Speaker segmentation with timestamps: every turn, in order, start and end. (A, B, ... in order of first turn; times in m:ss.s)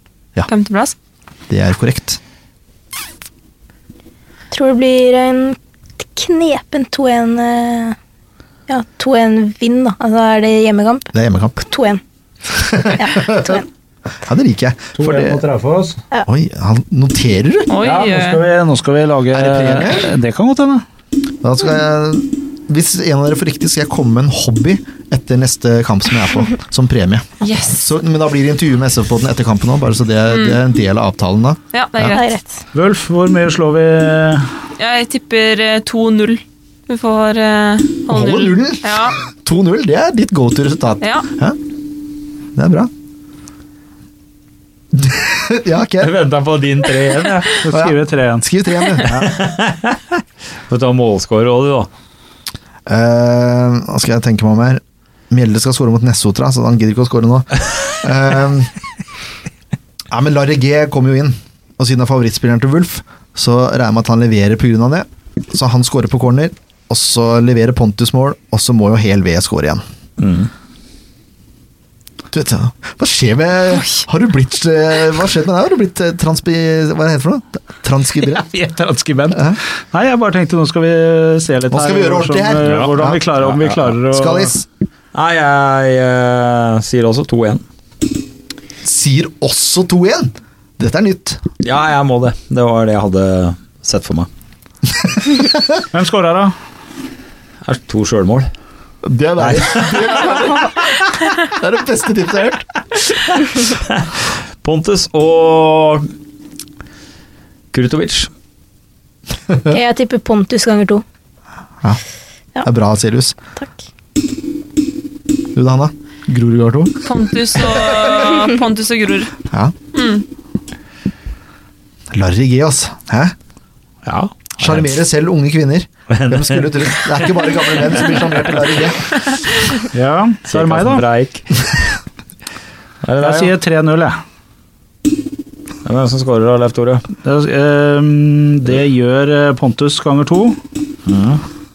0:00.4-0:00.9 A
0:01.5-0:02.2 B
0:04.5-0:08.0 C
0:08.7-0:12.0 C
0:11.1-0:11.6 B
0:12.6-0:13.6 B
0:13.0-0:13.6 C
0:14.2-0:15.4 B
0:15.0-0:16.0 D
0:16.3-0:17.7 B
0:17.7-0:18.4 A
0:17.8-0:20.8 D
0:19.3-0:20.1 B
0:21.4-0:32.1 B
0:27.4-0:27.9 A
0:30.3-0:30.6 A
0:31.7-0:32.2 A
0:32.1-0:32.6 C
0:32.7-0:34.5 D
0:34.8-0:39.2 A
0:38.1-0:41.6 B
0:41.0-0:41.3 A
0:42.6-0:42.9 B
0:44.9-0:46.1 B
0:46.0-0:47.6 E
0:47.6-0:48.4 D
0:47.7-0:49.4 B
0:49.1-0:51.9 E
0:52.9-0:58.7 B
1:00.1-1:09.8 B
1:10.2-1:10.5 E
1:12.3-1:18.5 B
1:18.2-1:24.5 D
1:19.3-1:19.6 B
1:21.7-1:23.2 B
1:22.6-1:23.8 E
1:24.0-1:24.6 B
1:25.1-1:27.6 E
1:28.8-1:31.4 B
1:31.6-1:34.3 E
1:35.9-1:36.5 D
1:37.6-1:38.5 E
1:39.0-1:42.7 B
1:39.4-1:40.6 E
1:43.5-1:44.1 E
1:44.6-1:46.1 E
1:47.7-1:48.3 E
1:49.6-1:51.0 C
1:52.6-1:53.4 B
1:55.5-1:57.1 B
1:57.0-1:59.3 A
1:59.9-2:00.2 A
2:02.1-2:03.3 B
2:04.0-2:04.9 E
2:04.6-2:09.2 B
2:06.1-2:06.9 E
2:09.3-2:09.8 A
2:09.9-2:11.0 D
2:10.5-2:12.0 E
2:13.0-2:13.5 E
2:13.2-2:14.2 D
2:15.8-2:17.0 E
2:17.2-2:20.6 D
2:21.0-2:21.4 E